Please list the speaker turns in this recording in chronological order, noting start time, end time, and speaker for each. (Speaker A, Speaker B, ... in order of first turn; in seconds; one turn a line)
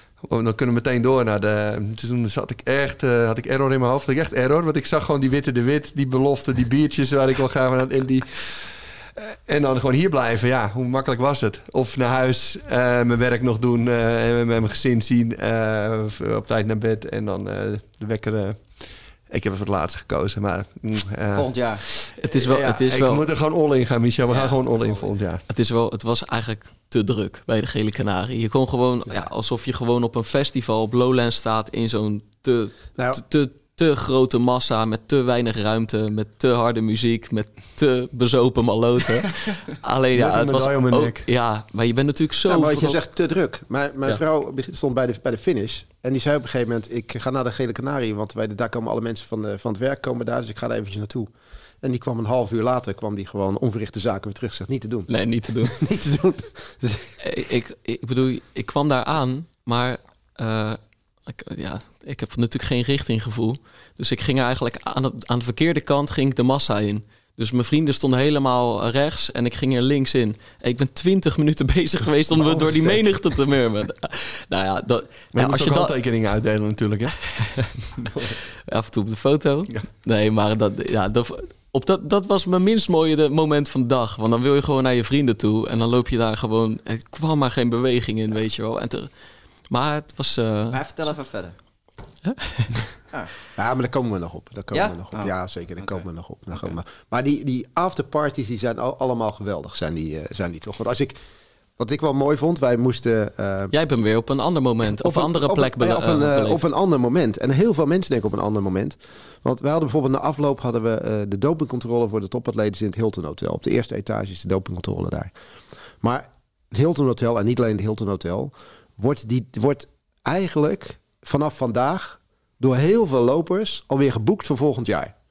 Speaker A: 0.2-25.4
Speaker B: 21.3-21.8
Speaker C: 22.2-23.2
Speaker B: 24.3-25.1
Speaker C: 25.5-43.0
Speaker A: 40.1-41.3
Speaker D: 42.5-51.3
Speaker D: 51.8-55.1
Speaker C: 55.1-55.8
Speaker D: 55.6-57.2
Speaker C: 57.2-75.9
Speaker A: 72.4-73.0
Speaker A: 75.3-78.3
Speaker C: 78.7-89.1
Speaker C: 89.7-90.8
Speaker B: 90.7-91.5
Speaker C: 92.2-92.7
Speaker D: 93.6-101.2
Speaker B: 94.7-96.0
Speaker D: 101.8-103.7
Speaker C: 103.7-106.7
Speaker D: 105.0-115.3
Speaker D: 116.0-125.1